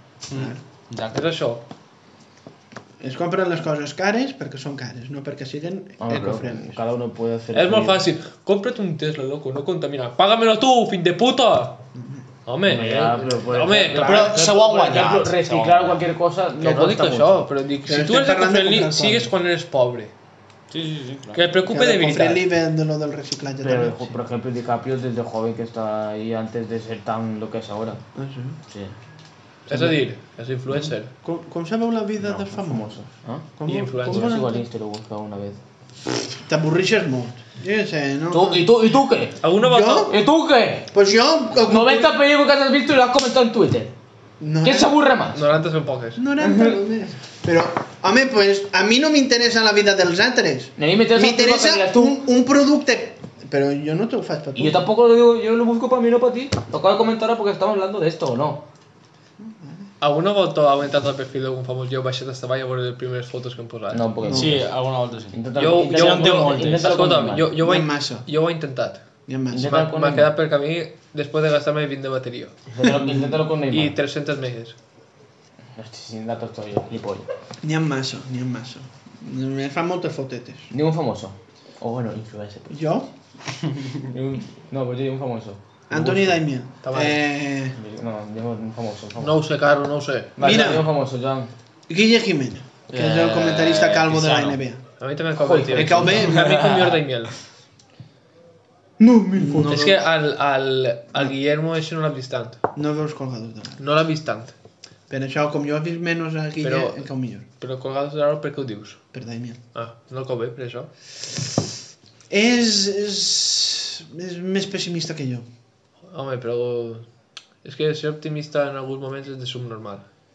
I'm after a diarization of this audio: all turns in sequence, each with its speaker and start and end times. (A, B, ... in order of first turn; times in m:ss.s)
0:00.3-0:01.2 A
0:00.3-0:00.6 B
0:01.1-0:01.6 C
0:03.0-0:06.8 B
0:06.0-0:08.0 D
0:07.5-0:11.8 C
0:12.0-0:12.2 B
0:12.5-0:14.4 C
0:12.6-0:17.5 D
0:13.9-0:16.0 A
0:16.6-0:20.1 C
0:17.9-0:19.3 B
0:20.7-0:21.4 A
0:21.3-0:22.4 C
0:21.7-0:24.2 B
0:23.6-0:28.0 D
0:28.2-0:28.6 B
0:28.7-0:29.0 D
0:29.7-0:31.1 C
0:29.7-0:30.0 D
0:30.7-0:32.9 B
0:32.2-0:33.5 D
0:33.6-0:34.6 B
0:33.7-0:34.4 C
0:34.0-0:35.6 D
0:36.4-0:38.7 B
0:38.3-0:39.4 D
0:39.4-0:40.1 C
0:39.6-0:40.2 B
0:40.0-0:40.9 D
0:40.9-0:42.1 B
0:41.6-0:43.9 D
0:44.4-0:44.9 B
0:44.6-0:45.4 D
0:45.3-0:46.2 C
0:46.2-0:54.8 B
0:46.4-0:46.8 D
0:50.8-0:52.2 D
0:54.6-0:58.6 D
0:59.4-0:59.9 B
1:00.0-1:04.1 C
1:03.9-1:04.7 D
1:04.2-1:04.6 B
1:04.3-1:06.9 A
1:05.3-1:07.5 D
1:05.6-1:09.0 C
1:07.6-1:08.3 B
1:09.3-1:09.8 B
1:09.5-1:10.3 D
1:09.6-1:12.6 C
1:12.7-1:14.0 D
1:12.8-1:13.4 B
1:13.7-1:14.8 C
1:15.8-1:17.3 D
1:17.6-1:20.7 B
1:20.7-1:22.8 D
1:22.7-1:23.1 B
1:24.1-1:26.4 D
1:25.9-1:27.8 B
1:26.8-1:27.2 C
1:27.8-1:29.4 D
1:29.2-1:30.4 C
1:30.4-1:31.5 D
1:30.4-1:30.9 B
1:31.9-1:34.8 B
1:32.9-1:34.6 A
1:35.0-1:37.4 C
1:35.4-1:36.3 D
1:35.7-1:36.5 B
1:36.3-1:37.0 A
1:39.0-1:39.8 D
1:39.3-1:40.1 B
1:39.7-1:42.6 C
1:42.8-1:43.8 B
1:43.8-1:44.5 C
1:45.1-1:47.4 B
1:46.6-1:47.1 C
1:47.6-1:49.0 C
1:49.1-1:49.6 B
1:49.8-1:50.9 C
1:52.3-1:55.4 B
1:56.1-1:57.1 C
1:57.6-2:00.0 C